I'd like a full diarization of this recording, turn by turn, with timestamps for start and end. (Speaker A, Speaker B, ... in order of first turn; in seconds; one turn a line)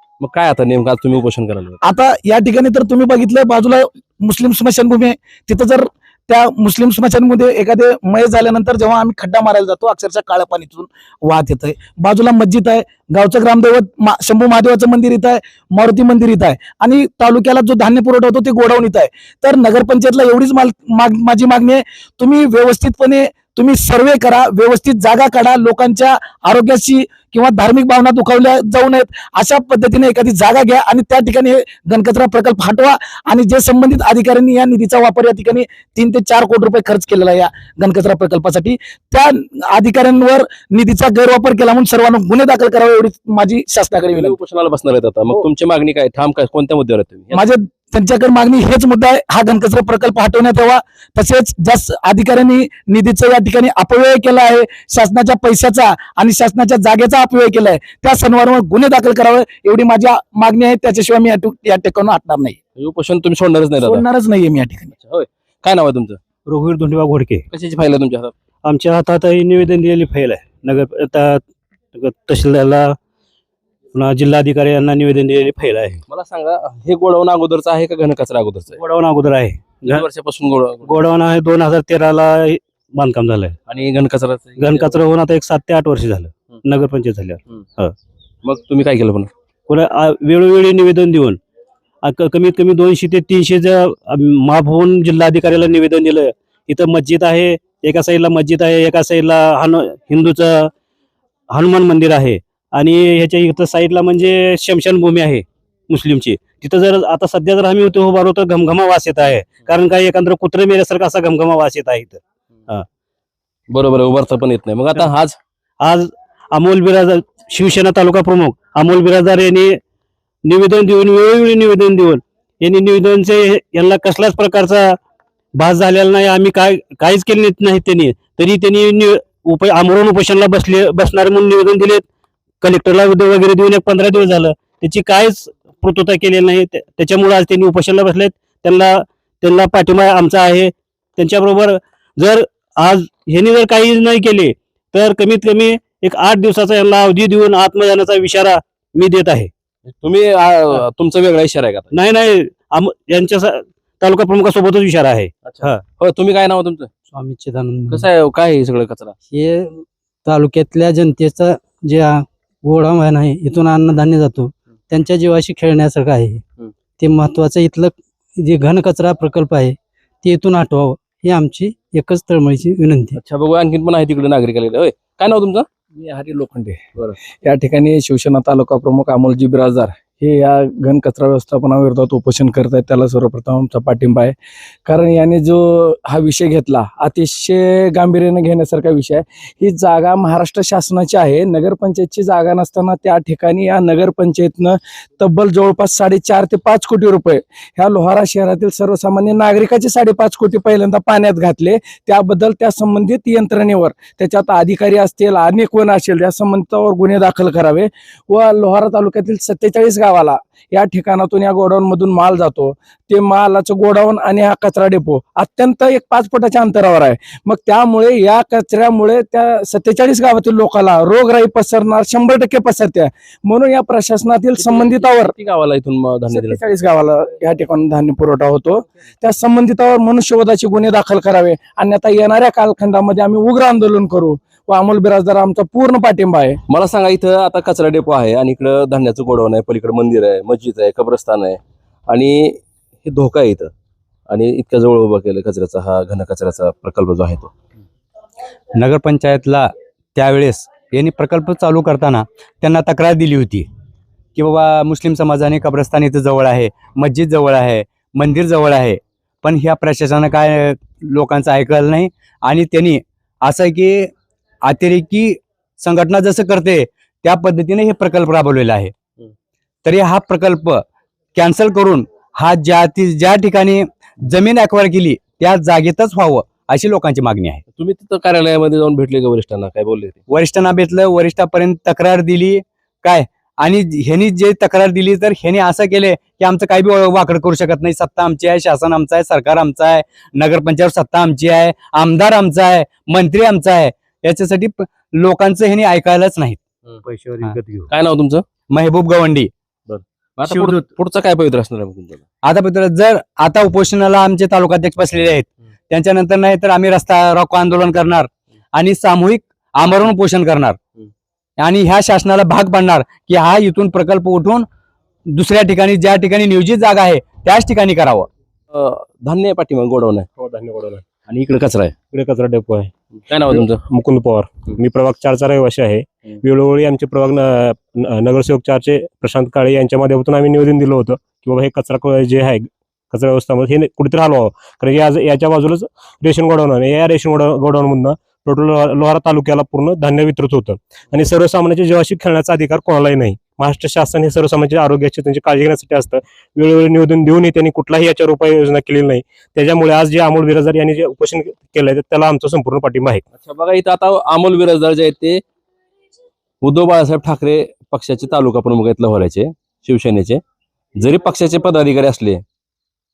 Speaker A: 0.2-1.8
Speaker B: 1.8-44.4
Speaker A: 44.1-47.4
Speaker B: 47.3-62.6
Speaker A: 62.8-64.0
Speaker B: 63.8-64.9
Speaker A: 65.0-66.2
Speaker C: 66.5-67.4
Speaker A: 67.5-68.3
Speaker C: 68.6-71.4
Speaker C: 71.9-73.0
Speaker C: 73.9-76.0
Speaker A: 76.1-78.8
Speaker C: 78.8-80.0
Speaker A: 79.8-81.0
Speaker C: 80.8-83.6
Speaker A: 83.7-85.0
Speaker C: 84.6-87.9
Speaker A: 88.4-89.3
Speaker C: 89.7-91.4
Speaker C: 92.0-100.7
Speaker C: 101.5-112.8
Speaker A: 113.7-115.4
Speaker C: 115.8-119.8
Speaker C: 120.5-125.0
Speaker C: 125.5-132.0
Speaker C: 132.6-149.5
Speaker A: 150.0-151.9
Speaker C: 151.9-155.8
Speaker A: 155.4-156.9
Speaker C: 157.1-158.0
Speaker A: 157.9-159.2
Speaker C: 159.3-166.4
Speaker C: 167.0-173.2
Speaker A: 173.1-177.2
Speaker D: 176.5-176.8
Speaker D: 177.4-184.3
Speaker D: 184.8-225.3
Speaker A: 224.6-226.6
Speaker D: 226.3-236.6
Speaker A: 236.7-243.7
Speaker A: 244.3-247.5
Speaker E: 248.8-253.7
Speaker E: 254.3-264.1
Speaker E: 264.6-268.9
Speaker E: 269.8-270.8
Speaker E: 271.3-277.6
Speaker A: 277.8-280.2
Speaker E: 280.3-296.6
Speaker E: 297.2-297.8
Speaker A: 297.9-298.4
Speaker E: 298.7-299.5
Speaker A: 299.9-302.2
Speaker E: 302.4-310.8
Speaker E: 311.6-314.7
Speaker E: 315.3-318.3
Speaker A: 318.7-320.3
Speaker F: 320.4-321.0
Speaker A: 321.3-321.9
Speaker F: 322.1-322.9
Speaker A: 323.2-323.8
Speaker F: 323.5-353.2
Speaker A: 353.3-355.4
Speaker A: 356.6-360.4
Speaker A: 361.0-362.4